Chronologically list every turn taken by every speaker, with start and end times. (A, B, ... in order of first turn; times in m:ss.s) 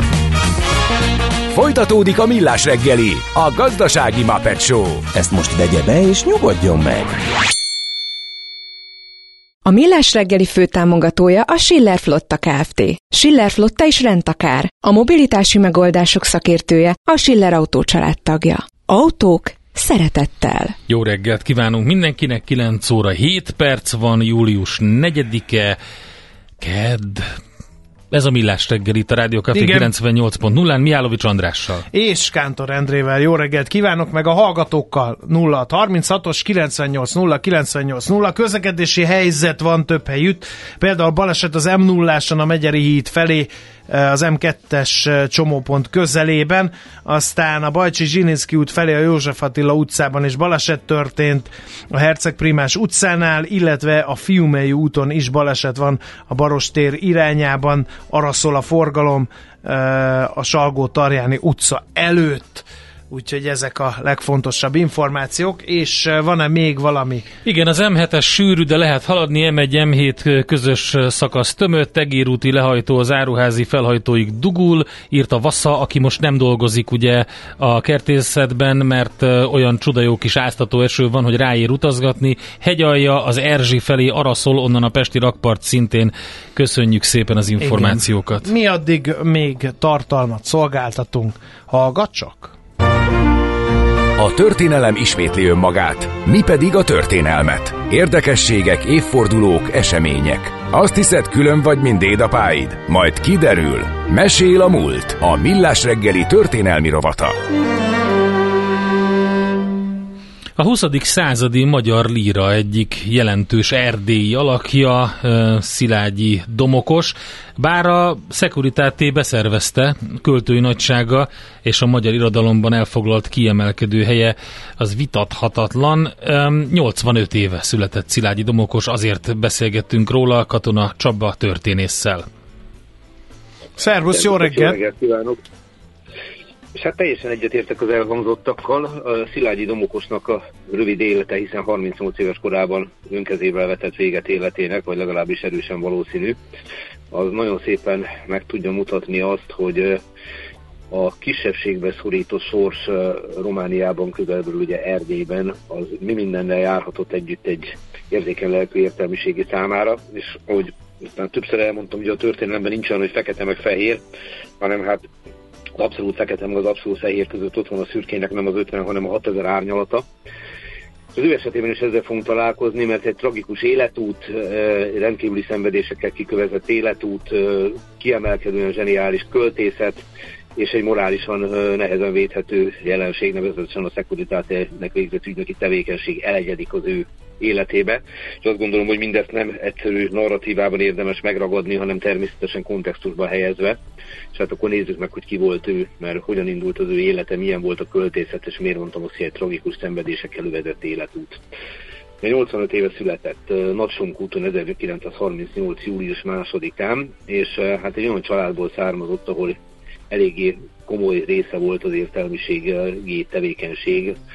0:01.5-0:05.1 A
0:05.1-0:07.2 B
0:09.6-0:20.8 C
0:20.9-0:25.8 D
0:26.6-0:27.3 D
0:28.1-0:31.8 D
0:29.5-0:29.9 E
0:31.9-1:07.3 E
1:07.4-1:28.4 D
1:27.6-1:32.5 E
1:34.2-1:47.4 A
1:50.6-2:12.2 D
2:13.8-2:14.8 E
2:14.1-2:15.4 F
2:16.7-2:26.4 F
2:27.1-2:30.0 F
2:30.9-2:44.0 F
2:44.6-2:45.1 F
2:45.8-2:50.1 F
2:51.1-3:00.0 F
3:00.6-3:13.8 F
3:14.3-3:21.4 F
3:22.2-3:29.6 F
3:30.1-3:34.2 F